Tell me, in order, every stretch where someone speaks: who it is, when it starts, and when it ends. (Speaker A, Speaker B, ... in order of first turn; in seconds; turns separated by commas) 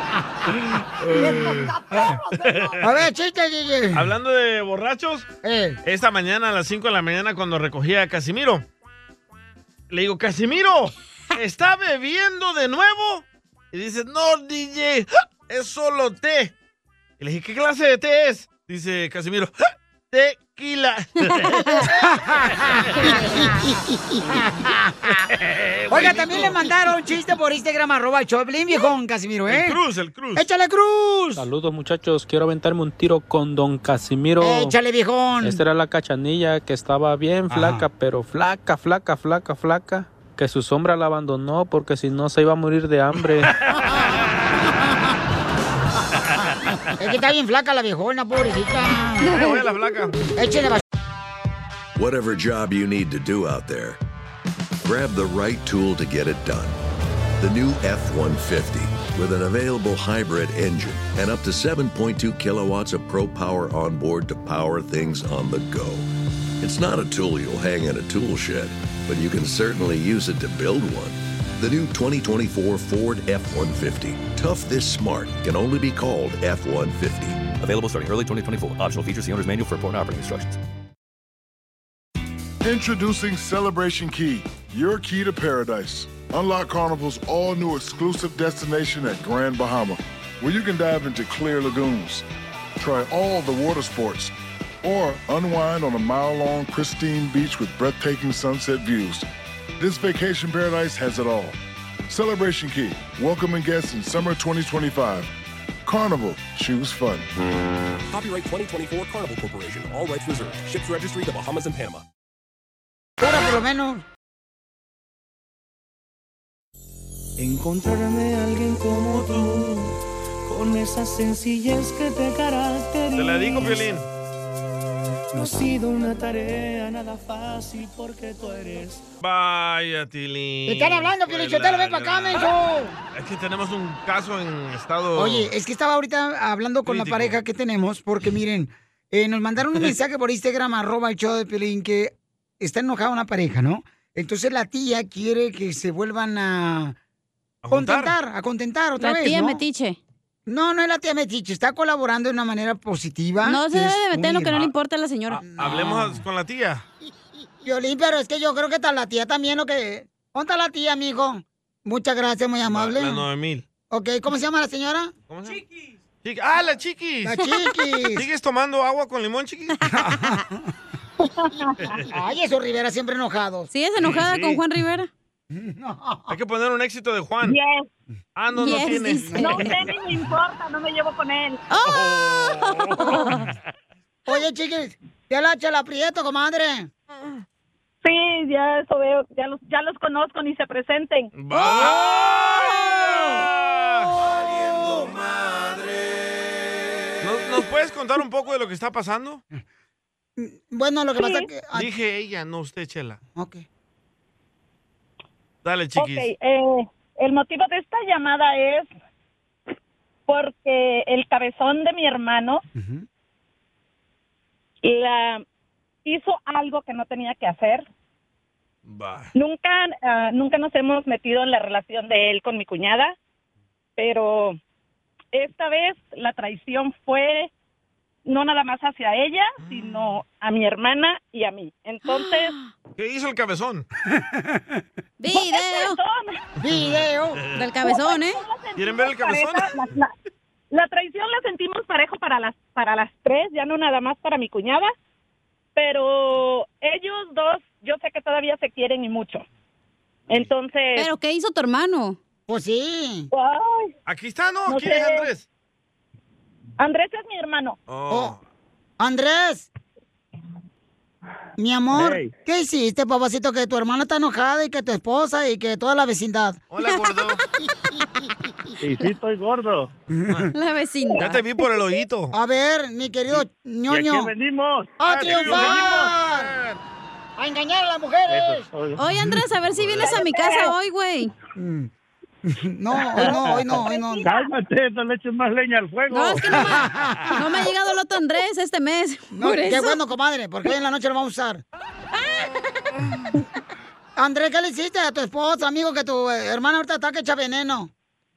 Speaker A: 1.0-3.0, Speaker B: 1.1-2.1, Speaker B: 2.8-4.1, Speaker A: 3.9-5.3, Speaker B: 5.4-5.8, Speaker A: 5.8-8.6, Speaker A: 9.9-16.5, Speaker A: 17.2-19.5, Speaker A: 20.1-21.9, Speaker C: 21.3-21.8, Speaker B: 21.9-25.3, Speaker A: 25.3-26.6, Speaker B: 25.9-29.8, Speaker A: 29.5-30.4, Speaker B: 30.4-31.5, Speaker D: 31.4-34.7, Speaker B: 34.4-35.6, Speaker D: 35.4-43.5, Speaker B: 37.5-37.9, Speaker B: 43.8-45.0, Speaker B: 47.0-49.4, Speaker A: 49.2-50.1, Speaker C: 49.3-49.5, Speaker B: 50.4-50.8, Speaker E: 51.9-54.0, Speaker E: 54.8-56.8, Speaker E: 57.4-66.0, Speaker E: 66.6-77.5, Speaker F: 77.5-80.6, Speaker G: 82.6-92.2, Speaker G: 92.8-99.3, Speaker G: 99.8-101.6, Speaker G: 102.1-105.3, Speaker G: 105.8-107.3, Speaker F: 108.1-112.0, Speaker B: 113.2-114.0, Speaker H: 117.4-119.9, Speaker A: 119.1-119.5, Speaker H: 120.4-123.9, Speaker A: 123.2-124.1, Speaker H: 125.3-129.0, Speaker A: 129.2-132.5, Speaker B: 130.7-133.0, Speaker A: 133.1-135.5, Speaker B: 135.2-146.9, Speaker A: 136.8-137.4, Speaker A: 147.6-148.1, Speaker B: 147.7-149.6, Speaker C: 149.0-150.0, Speaker B: 150.5-154.6, Speaker C: 153.4-155.4, Speaker A: 155.3-156.8, Speaker B: 155.5-156.2, Speaker B: 157.6-163.2, Speaker A: 162.6-163.6, Speaker B: 163.9-165.1, Speaker A: 165.3-165.6, Speaker A: 166.2-167.4, Speaker B: 167.2-168.2, Speaker A: 168.1-169.9, Speaker B: 169.9-170.7, Speaker I: 171.2-171.7, Speaker B: 172.1-173.7, Speaker C: 173.7-175.1, Speaker A: 174.0-174.6, Speaker B: 175.5-176.3, Speaker A: 176.3-177.6, Speaker I: 177.4-177.8, Speaker A: 178.3-179.6, Speaker C: 178.6-179.8, Speaker B: 179.2-179.7, Speaker I: 179.4-181.6, Speaker C: 181.7-183.5, Speaker A: 181.8-183.5, Speaker B: 184.3-186.9, Speaker I: 188.0-191.3, Speaker A: 191.3-194.2, Speaker C: 191.5-193.2, Speaker A: 197.2-199.4, Speaker B: 200.4-201.9, Speaker I: 201.2-201.4, Speaker A: 201.7-203.2, Speaker B: 203.3-203.6, Speaker A: 205.6-206.3, Speaker I: 206.0-208.9, Speaker I: 210.3-212.6, Speaker B: 212.7-213.1, Speaker I: 214.8-215.4, Speaker I: 216.0-217.9, Speaker A: 218.8-219.3, Speaker I: 219.3-223.2, Speaker I: 224.0-224.6, Speaker I: 225.3-227.5, Speaker I: 228.2-232.5, Speaker A: 229.6-229.9, Speaker C: 232.0-232.7, Speaker A: 233.0-233.8, Speaker B: 234.3-234.6, Speaker C: 235.2-236.0, Speaker I: 235.3-236.4, Speaker B: 236.6-237.4, Speaker A: 236.7-237.6, Speaker C: 237.5-238.4, Speaker I: 237.8-240.1, Speaker A: 238.8-239.8, Speaker I: 240.7-244.9, Speaker I: 245.8-249.4, Speaker I: 250.3-251.1, Speaker C: 250.9-252.2, Speaker B: 252.5-253.3, Speaker I: 253.3-253.9, Speaker A: 254.1-255.4, Speaker I: 254.7-255.2, Speaker I: 256.8-257.8, Speaker A: 257.9-258.4, Speaker B: 258.1-258.3, Speaker B: 259.0-259.7, Speaker B: 261.6-266.6, Speaker J: 261.9-262.3, Speaker A: 266.7-267.4, Speaker J: 268.8-269.9, Speaker B: 270.1-270.5, Speaker C: 270.5-271.4, Speaker A: 271.2-272.3, Speaker B: 272.3-274.3, Speaker J: 273.9-276.1, Speaker B: 275.0-276.5, Speaker A: 275.1-276.8, Speaker B: 277.4-278.7, Speaker J: 278.3-279.0, Speaker C: 279.0-281.3, Speaker A: 279.8-280.1, Speaker I: 280.0-280.7, Speaker B: 281.6-281.9, Speaker B: 282.4-284.2, Speaker J: 283.1-286.6, Speaker I: 283.8-284.5, Speaker C: 286.1-290.0, Speaker B: 286.6-287.4, Speaker B: 289.3-291.6, Speaker B: 294.2-297.9